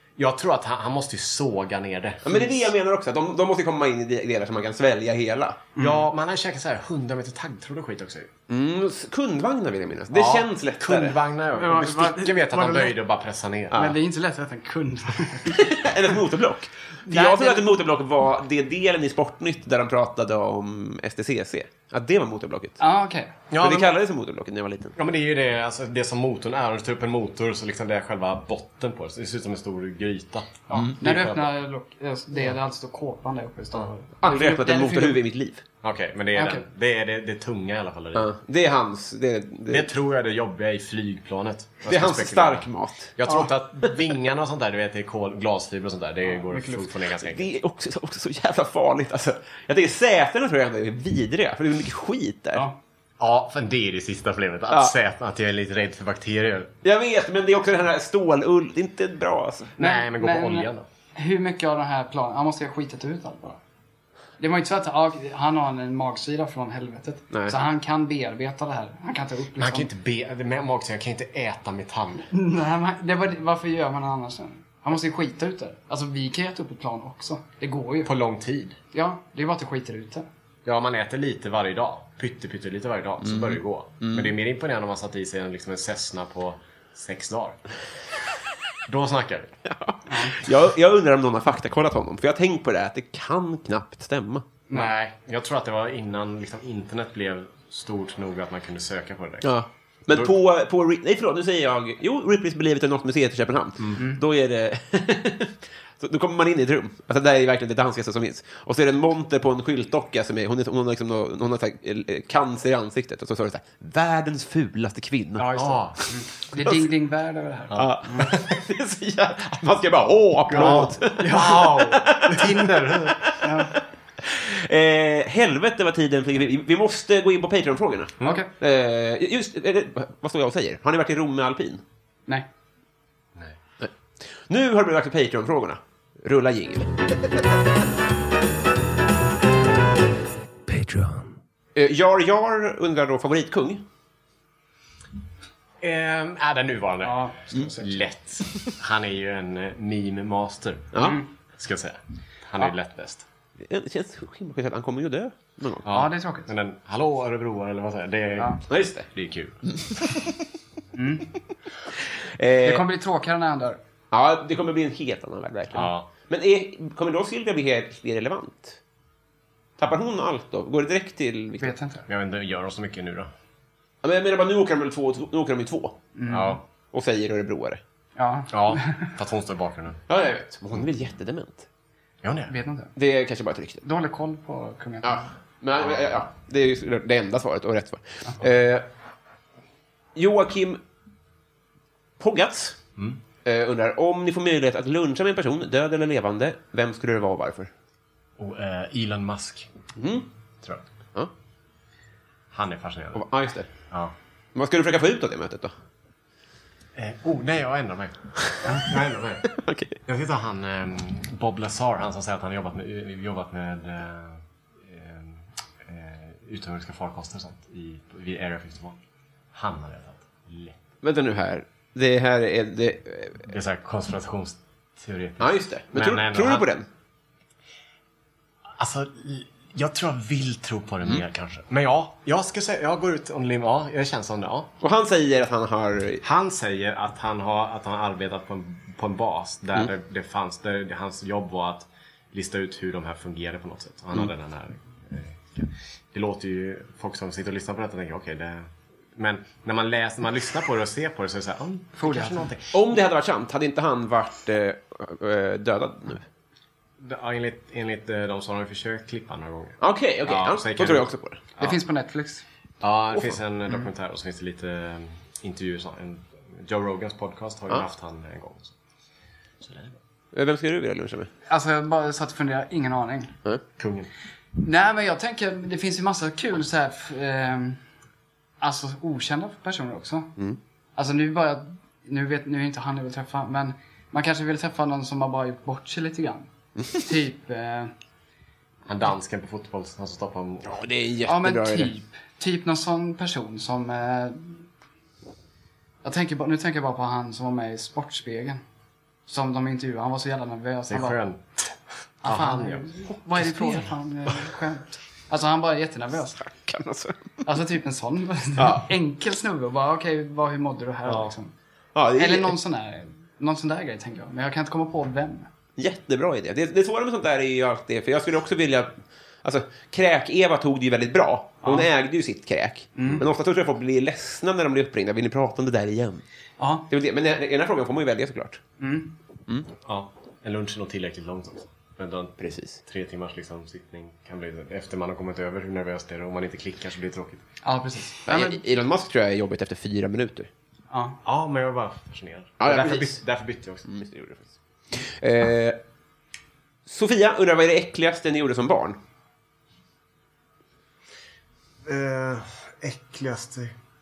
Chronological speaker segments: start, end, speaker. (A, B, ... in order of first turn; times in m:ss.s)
0:00.2-0:02.4 A
0:02.2-0:05.7 B
0:05.8-0:06.0 C
0:05.8-0:08.3 A
0:08.5-0:11.2 B
0:10.1-0:13.9 A
0:11.6-0:13.0 C
0:13.7-0:15.6 C
0:15.5-0:22.8 B
0:17.1-0:17.7 C
0:22.8-0:23.3 C
0:23.5-0:24.0 A
0:23.6-0:25.0 B
0:25.0-0:31.5 A
0:30.7-0:35.2 C
0:34.2-0:35.6 B
0:35.8-0:38.3 A
0:36.4-0:36.6 C
0:38.1-0:39.9 B
0:39.7-0:47.5 A
0:41.9-0:43.2 B
0:46.3-0:46.9 C
0:47.2-0:52.7 B
0:53.2-0:56.7 A
0:56.8-0:59.8 B
0:59.8-1:00.8 A
0:59.8-1:03.6 C
1:04.4-1:09.9 C
1:07.3-1:07.6 B
1:09.6-1:12.3 A
1:12.3-1:18.1 C
1:18.0-1:18.8 A
1:18.9-1:20.3 C
1:20.6-1:27.6 A
1:23.2-1:24.4 B
1:28.9-1:29.6 A
1:29.6-1:34.4 B
1:30.1-1:30.4 C
1:34.7-1:39.5 A
1:39.4-1:55.6 B
1:55.4-1:58.3 C
1:55.5-1:56.0 A
1:57.7-1:58.4 A
1:57.8-2:03.6 B
2:00.5-2:03.3 A
2:00.5-2:01.6 C
2:03.4-2:03.7 C
2:04.2-2:11.8 B
2:08.2-2:08.5 C
2:13.8-2:17.0 B
2:20.7-2:21.2 B
2:21.8-2:23.8 B
2:25.8-2:31.0 A
2:27.0-2:27.9 C
2:30.9-2:31.2 B
2:31.6-2:33.2 A
2:33.6-2:35.9 B
2:35.8-2:39.6 A
2:35.9-2:36.5 C
2:38.7-2:39.1 B
2:39.7-2:40.3 B
2:41.0-2:41.3 C
2:42.2-2:42.8 B
2:42.6-2:43.8 C
2:44.1-2:48.8 B
2:45.7-2:46.1 A
2:49.8-2:51.7 B
2:51.6-2:52.0 C
2:52.1-2:53.3 A
2:54.0-2:56.0 B
2:56.2-2:56.6 C
2:56.3-2:56.6 A
2:56.9-2:57.8 B
2:58.2-2:59.1 C
2:58.5-3:00.0 A
3:00.1-3:01.7 B
3:02.2-3:02.5 A
3:02.5-3:02.9 C
3:03.0-3:03.8 B
3:03.8-3:05.3 C
3:05.0-3:08.9 B
3:05.8-3:06.1 A
3:10.2-3:10.8 B
3:12.2-3:12.8 B
3:13.4-3:17.7 B
3:18.4-3:19.7 A
3:20.0-3:20.3 B
3:22.5-3:23.2 A
3:23.1-3:23.7 B
3:24.6-3:25.7 B
3:27.0-3:39.0 A
3:29.5-3:30.0 B
3:39.5-3:40.8 A
3:41.0-3:43.5 B
3:43.5-3:46.7 A
3:45.4-3:46.9 B
3:48.8-3:54.7 A
3:54.8-3:56.2 B
3:56.2-4:12.7 A
4:12.0-4:12.5 C
4:12.7-4:16.3 B
4:17.0-4:21.1 A
4:19.8-4:21.4 B
4:21.6-4:22.4 C
4:22.8-4:28.7 A
4:29.6-4:30.0 A
4:30.3-4:31.3 B
4:31.5-4:33.4 C
4:33.8-4:34.1 A
4:34.6-4:37.8 C
4:38.6-4:40.3 C
4:41.0-4:46.5 C
4:47.0-4:47.9 C
4:48.9-4:50.7 A
4:50.6-4:51.9 B
4:51.3-4:54.7 C
4:56.0-4:58.6 C
4:59.3-5:01.2 C
5:00.9-5:03.9 A
5:02.2-5:06.4 C
5:06.3-5:07.5 B
5:07.4-5:11.5 C
5:08.6-5:08.9 B
5:12.0-5:12.6 B
5:12.2-5:15.5 C
5:15.8-5:26.2 B
5:21.6-5:21.9 C
5:23.0-5:23.2 C
5:26.6-5:26.9 C
5:26.9-5:28.6 B
5:28.8-5:29.1 C
5:29.8-5:37.4 A
5:32.4-5:32.8 B
5:37.6-5:38.6 C
5:38.3-5:40.5 B
5:40.9-5:41.2 C
5:41.2-5:43.8 A
5:42.6-5:43.2 B
5:43.8-5:45.8 B
5:46.9-5:49.0 B
5:51.9-5:53.7 A